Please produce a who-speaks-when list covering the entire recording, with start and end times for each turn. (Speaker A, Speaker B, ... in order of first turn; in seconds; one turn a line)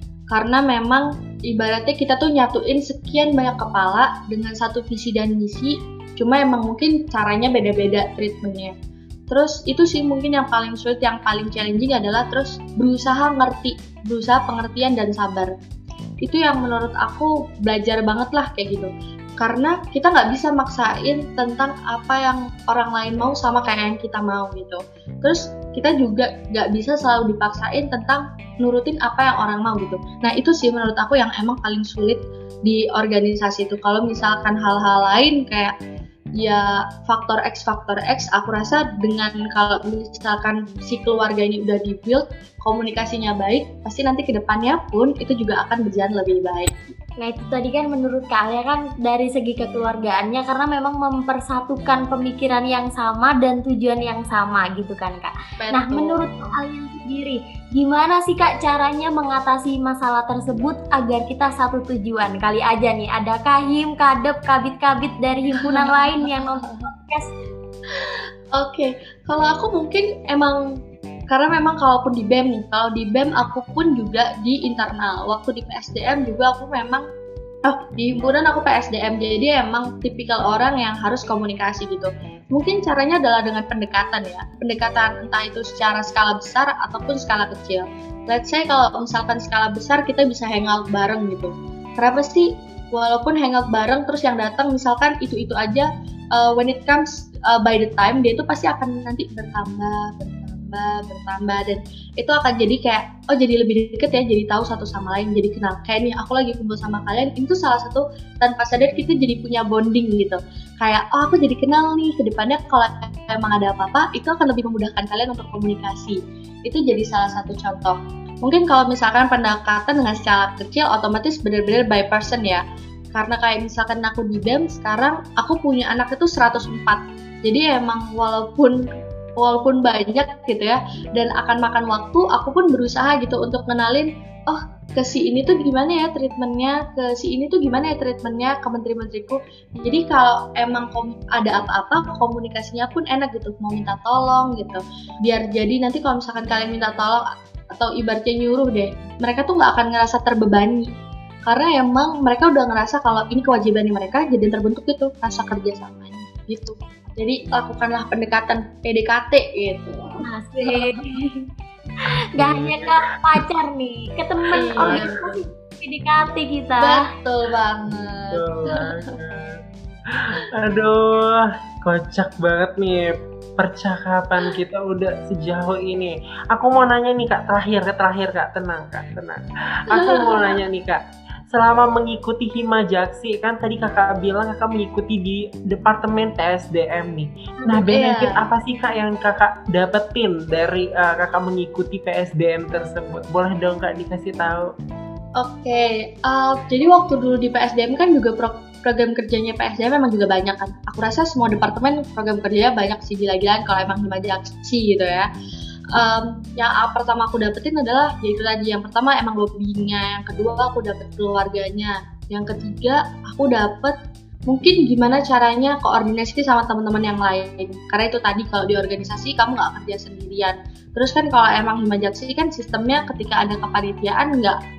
Speaker A: 0.3-8.7
Speaker A: 9.3-15.5
Speaker A: 16.2-35.7
Speaker A: 36.4-46.9
Speaker B: 47.2-67.3
Speaker A: 55.6-56.2
Speaker A: 65.5-66.9
Speaker A: 67.9-70.6
Speaker A: 71.3-77.0
Speaker A: 77.6-122.6
Speaker A: 123.1-128.8
Speaker A: 129.4-150.9
Speaker A: 151.4-161.0
Speaker B: 160.2-161.4
Speaker B: 162.4-167.0
Speaker C: 162.4-163.4
Speaker A: 164.5-165.2
Speaker C: 164.8-165.1
Speaker A: 166.8-169.1
Speaker C: 168.3-169.6
Speaker C: 170.1-181.0
Speaker A: 179.9-180.6
Speaker C: 181.5-194.7
Speaker A: 187.8-188.5
Speaker A: 195.4-205.3
Speaker A: 205.9-213.9
Speaker A: 214.5-224.6